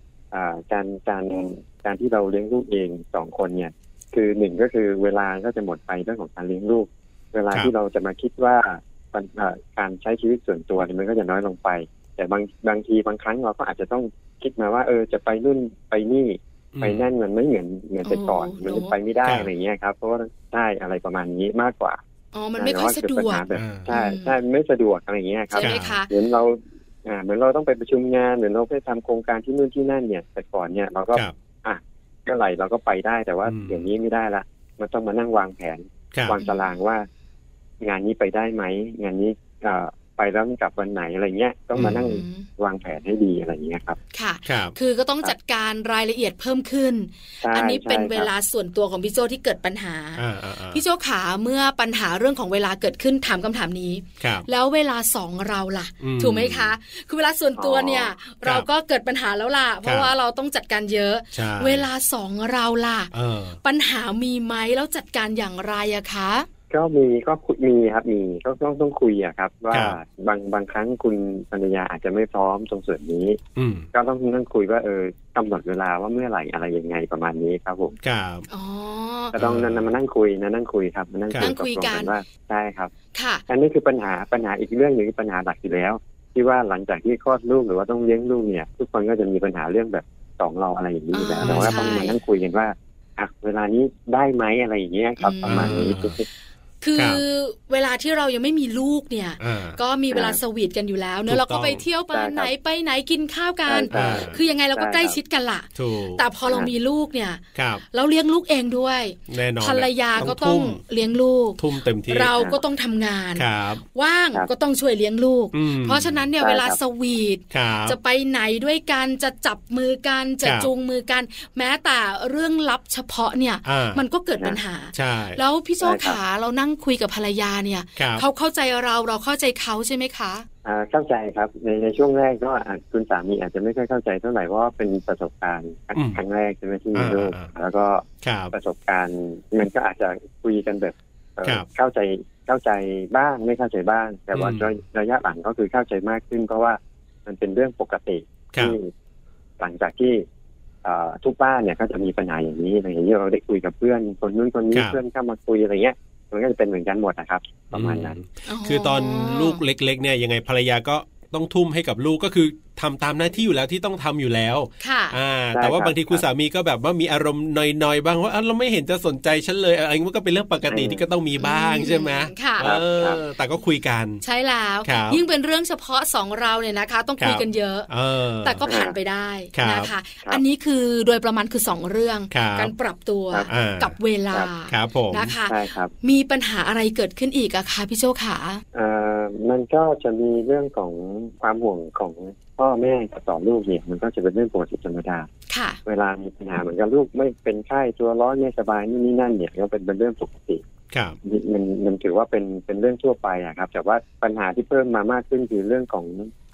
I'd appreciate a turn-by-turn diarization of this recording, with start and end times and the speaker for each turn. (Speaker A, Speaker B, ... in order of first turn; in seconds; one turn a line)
Speaker A: 0.3-22.0
Speaker B: 16.7-17.1
Speaker C: 18.0-18.9
Speaker C: 22.3-24.4
Speaker A: 22.6-37.1
Speaker B: 23.5-23.9
Speaker C: 25.5-26.1
Speaker B: 25.6-25.9
Speaker B: 33.5-33.9
Speaker C: 36.4-36.7
Speaker A: 37.8-44.0
Speaker B: 41.8-42.1
Speaker C: 41.8-42.5
Speaker C: 44.1-63.1
Speaker B: 44.5-44.7
Speaker A: 47.4-48.3
Speaker B: 50.2-50.8
Speaker B: 54.2-54.5
Speaker B: 56.0-56.7
Speaker A: 57.5-58.1
Speaker B: 59.8-60.1
Speaker B: 61.3-61.9
Speaker B: 63.1-63.6
Speaker C: 63.6-66.5
Speaker A: 66.7-73.4
Speaker B: 69.7-70.0
Speaker B: 73.6-73.8
Speaker A: 73.9-78.0
Speaker B: 78.0-78.5
Speaker C: 78.5-79.3
Speaker A: 79.3-82.9
Speaker B: 79.3-79.9
Speaker C: 81.4-82.1
Speaker C: 83.1-83.4
Speaker A: 83.5-96.2
Speaker C: 91.1-92.2
Speaker B: 91.4-91.8
Speaker C: 95.2-95.9
Speaker B: 95.5-96.2
Speaker C: 96.8-130.5
Speaker B: 97.0-97.2
Speaker B: 99.4-99.8
Speaker A: 100.1-100.4
Speaker B: 101.3-101.8
Speaker A: 102.1-102.5
Speaker A: 103.7-105.2
Speaker B: 103.9-104.4
Speaker B: 105.8-106.2
Speaker B: 107.5-107.8
Speaker B: 109.3-110.8
Speaker B: 111.6-112.3
Speaker A: 112.3-112.6
Speaker B: 113.3-113.8
Speaker B: 115.5-116.2
Speaker A: 116.4-116.8
Speaker B: 117.5-118.0
Speaker B: 120.4-120.7
Speaker B: 123.6-124.0
Speaker B: 124.9-125.4
Speaker A: 125.8-126.2
Speaker B: 128.0-128.2
Speaker A: 130.6-148.9
Speaker B: 135.9-136.2
Speaker B: 136.9-137.5
Speaker B: 138.2-138.5
Speaker B: 144.3-144.7
Speaker A: 149.6-150.2
Speaker A: 150.8-158.2
Speaker B: 154.7-155.0
Speaker B: 157.7-174.2
Speaker C: 158.5-159.6
Speaker C: 164.8-165.2
Speaker A: 165.5-166.2
Speaker A: 170.7-171.0
Speaker C: 171.4-172.7
Speaker A: 172.6-173.2
Speaker C: 174.2-177.9
Speaker B: 174.8-175.2
Speaker B: 177.2-178.6
Speaker C: 178.4-188.6
Speaker A: 178.7-178.9
Speaker B: 179.5-179.9
Speaker B: 182.3-182.7
Speaker B: 183.5-183.9
Speaker B: 184.7-185.3
Speaker A: 185.4-185.9
Speaker A: 188.7-195.3
Speaker C: 195.5-195.8
Speaker A: 195.8-200.6
Speaker B: 200.9-201.2
Speaker A: 201.2-206.3